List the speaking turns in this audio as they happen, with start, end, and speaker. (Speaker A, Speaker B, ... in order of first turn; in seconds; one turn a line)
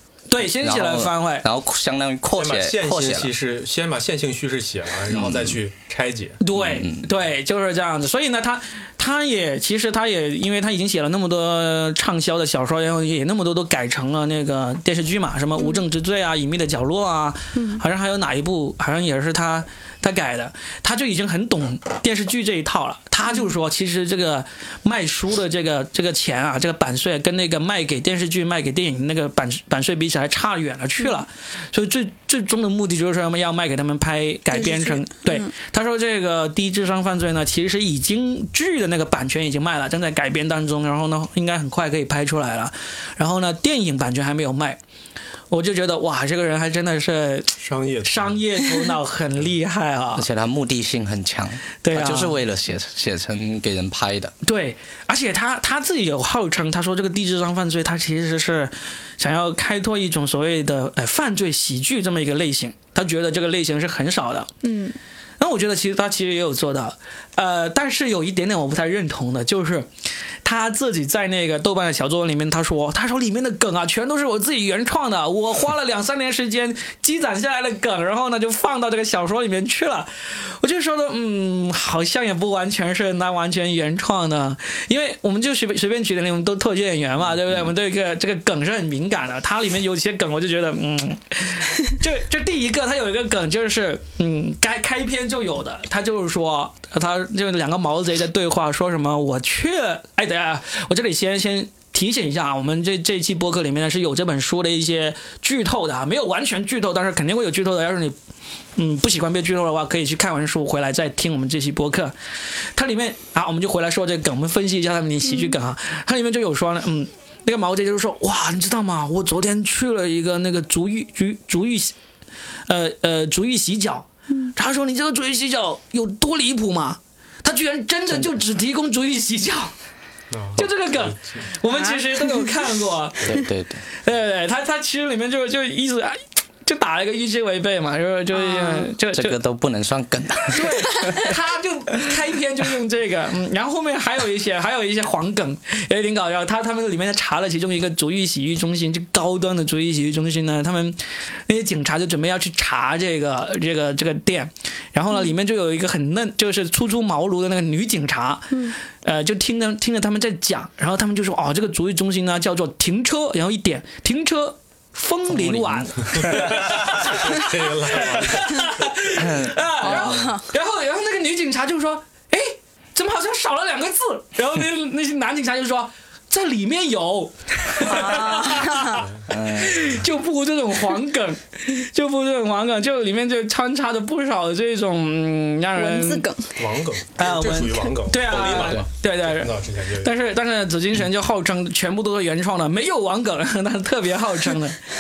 Speaker A: 0.3-1.4
Speaker B: 0.4-3.3
Speaker C: 2.4-6.4
Speaker B: 5.1-5.6
Speaker A: 6.4-44.8
Speaker B: 6.5-7.1
Speaker D: 15.6-15.8
Speaker D: 17.6-17.8
Speaker D: 34.5-35.5
Speaker A: 45.5-50.2
Speaker C: 47.6-48.4
Speaker B: 50.2-54.3
Speaker A: 51.8-52.4
Speaker A: 54.4-64.5
Speaker D: 64.6-65.0
Speaker A: 65.4-69.9
Speaker A: 70.4-108.1
Speaker A: 108.8-112.1
Speaker A: 112.7-121.9
Speaker D: 115.3-115.5
Speaker A: 122.7-129.7
Speaker C: 130.3-131.5
Speaker A: 130.6-133.4
Speaker D: 131.7-132.5
Speaker B: 133.2-133.8
Speaker A: 134.0-139.4
Speaker D: 138.3-138.9
Speaker B: 139.1-141.1
Speaker A: 140.5-186.2
Speaker B: 165.3-166.7
Speaker C: 166.1-168.7
Speaker B: 169.2-170.1
Speaker D: 169.8-170.4
Speaker D: 177.8-179.0
Speaker B: 179.3-179.9
Speaker D: 185.8-186.6
Speaker C: 186.6-190.1
Speaker A: 187.2-194.8
Speaker B: 188.5-188.8